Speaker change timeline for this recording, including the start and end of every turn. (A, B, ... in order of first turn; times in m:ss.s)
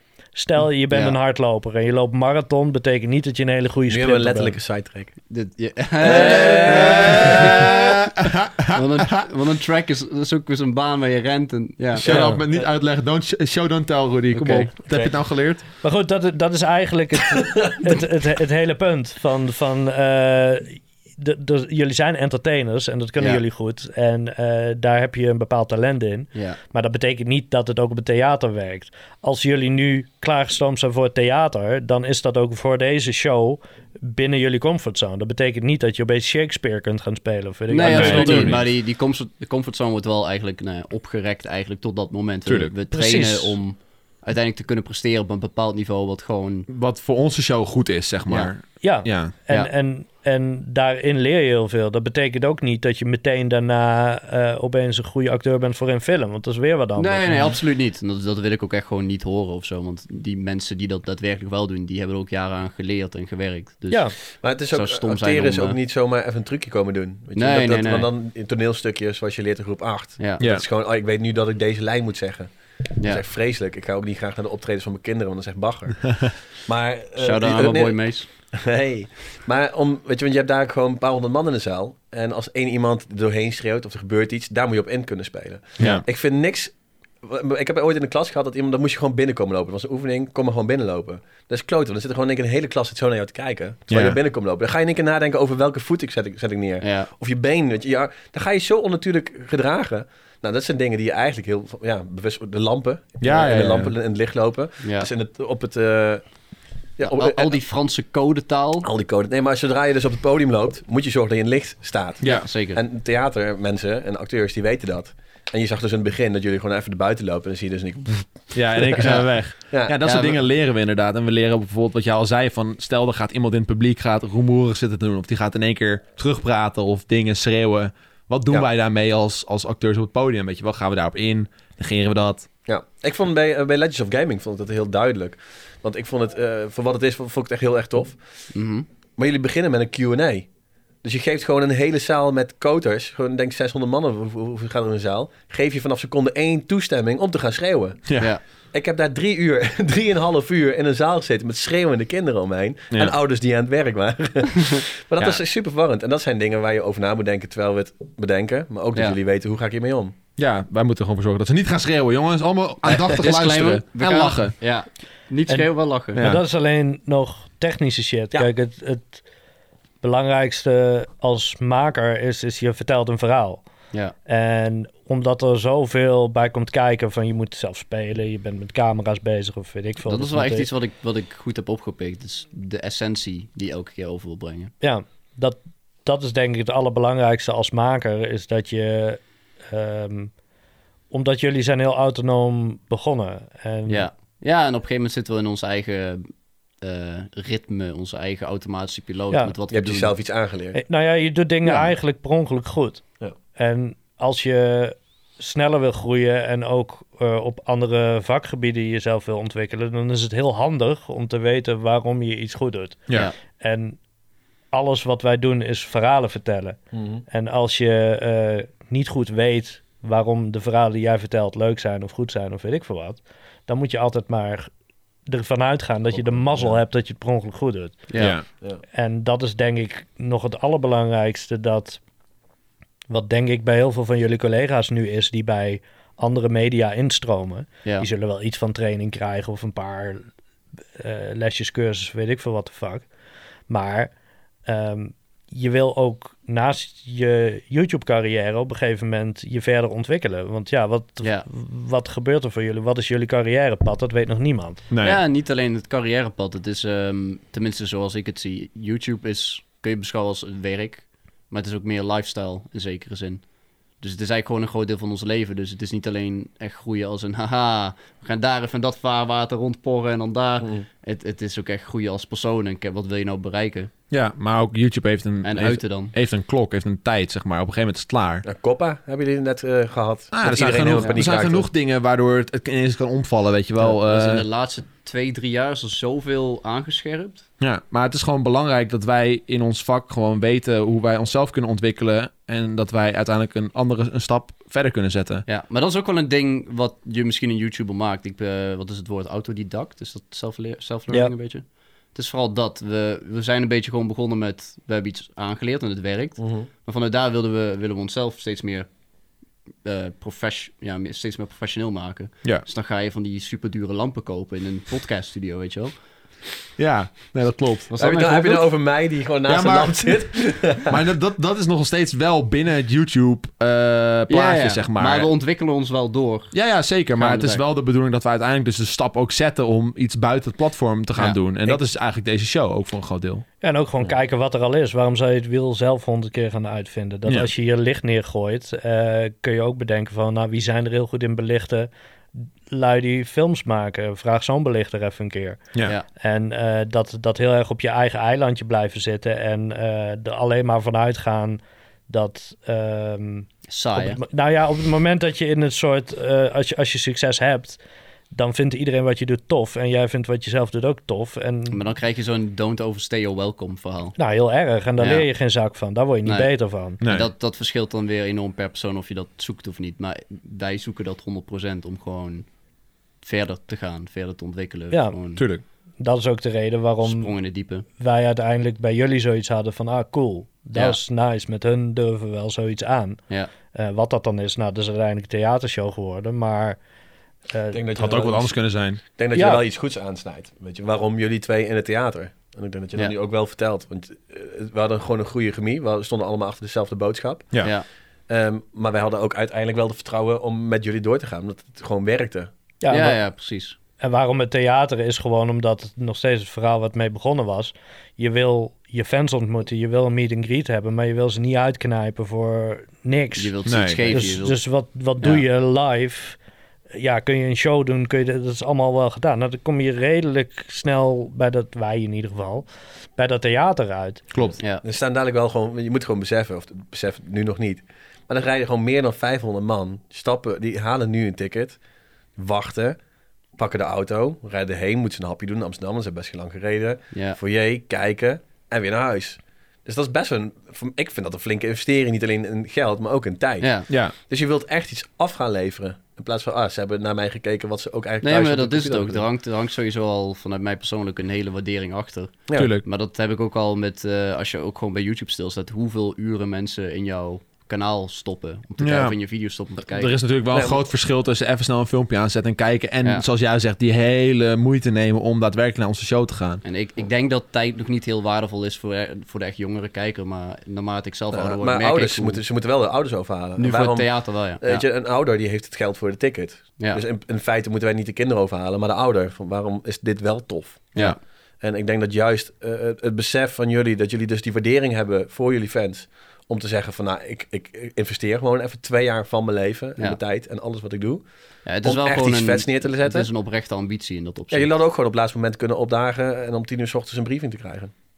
0:00.4-0:04.6 A
0:00.9-0:01.2 B
0:03.9-0:05.1 C
0:05.3-0:07.9 B
0:06.0-0:07.4 C
0:06.5-0:09.3 D
0:08.7-0:12.4 B
0:12.0-0:15.6 D
0:12.0-0:12.4 C
0:14.3-0:15.1 B
0:15.8-0:38.7 A
0:23.2-0:23.4 B
0:37.7-0:46.7 B
0:37.8-0:38.7 D
0:42.5-0:42.7 D
0:42.9-0:43.6 A
0:46.7-0:49.3 D
0:48.3-0:48.5 B
0:48.8-0:57.5 A
0:57.0-1:04.2 B
1:03.9-1:04.2 A
1:04.4-1:46.2 C
1:04.7-1:05.8 B
1:07.3-1:08.1 B
1:17.2-1:18.3 B
1:25.8-1:26.0 D
1:33.9-1:34.2 D
1:36.8-1:37.1 B
1:43.2-1:43.9 D
1:44.8-1:45.1 B
1:47.0-1:47.6 C
1:47.0-1:48.9 B
1:48.8-1:59.2 C
1:52.2-1:52.5 D
1:52.2-1:52.8 B
1:58.5-2:12.5 D
2:00.0-2:00.4 B
2:12.7-2:18.2 C
2:18.5-2:18.9 B
2:19.2-2:20.5 C
2:21.0-2:28.1 C
2:28.1-2:28.3 D
2:28.6-2:40.1 C
2:40.4-2:44.6 D
2:42.8-2:46.2 B
2:45.5-2:49.2 A
2:46.1-2:46.4 D
2:50.0-2:53.7 A
2:54.3-3:00.7 A
3:00.0-3:04.7 B
3:04.8-3:10.3 A
3:11.1-3:14.1 A
3:13.9-3:20.1 B
3:19.3-3:19.6 A
3:19.7-3:20.8 C
3:20.7-3:23.0 A
3:21.6-3:21.9 B
3:23.6-3:34.0 A
3:34.7-3:36.8 A
3:36.9-3:37.2 C
3:37.3-3:44.7 A
3:45.3-3:48.1 A
3:46.1-3:46.8 C
3:48.1-3:48.4 B
3:48.2-3:48.4 D
3:48.9-3:52.0 A
3:53.1-4:00.3 A
4:01.0-4:03.1 A
4:03.7-4:04.1 A
4:04.7-4:14.8 A
4:11.2-4:11.5 B
4:14.9-4:15.2 D
4:15.0-4:33.9 B
4:34.1-4:38.4 D
4:35.4-4:36.1 B
4:38.4-4:41.7 C
4:40.3-4:44.5 D
4:43.8-4:47.4 B
4:47.6-4:55.5 D
4:55.5-5:08.9 B
5:06.4-5:06.7 C
5:09.8-5:15.9 B
5:16.8-5:17.9 D
5:17.9-5:18.7 B
5:18.0-5:21.0 C
5:19.5-5:25.3 D
5:24.3-5:26.5 B
5:26.5-5:33.4 D
5:27.2-5:27.6 B
5:33.6-5:41.9 A
5:42.7-5:57.8 A
5:53.7-5:54.2 B
5:58.3-6:01.8 A
6:01.7-6:04.2 B
6:04.2-6:07.0 A
6:05.0-6:05.3 B
6:06.2-6:12.5 B
6:07.0-6:07.3 D
6:13.2-6:15.4 B
6:14.9-6:15.2 A
6:15.4-6:15.6 D
6:16.0-6:17.3 A
6:17.0-6:17.8 B
6:18.0-6:26.8 A
6:20.7-6:21.0 B
6:27.5-6:27.9 A
6:27.7-6:37.5 C
6:28.0-6:29.0 D
6:29.3-6:29.6 A
6:38.3-6:42.5 C
6:42.8-6:43.2 A
6:42.9-6:43.8 B
6:44.0-6:56.4 A
6:53.4-6:54.6 B
6:53.7-6:54.1 D
6:55.2-6:55.4 B
6:56.9-7:02.7 A
7:03.2-7:04.4 A
7:04.3-7:04.6 D
7:04.8-7:11.8 C
7:12.4-7:13.0 C
7:13.6-7:29.2 C
7:17.1-7:17.4 B
7:23.6-7:23.9 B
7:23.9-7:24.1 D
7:28.2-7:40.2 B
7:32.5-7:32.8 D
7:38.8-7:39.2 D
7:39.9-7:46.6 D
7:40.5-7:40.8 C
7:46.6-7:52.4 B
7:51.3-8:01.0 C
7:53.6-7:54.8 B
8:01.6-8:11.2 C
8:11.6-8:14.7 B
8:11.8-8:13.3 C
8:14.5-8:17.9 C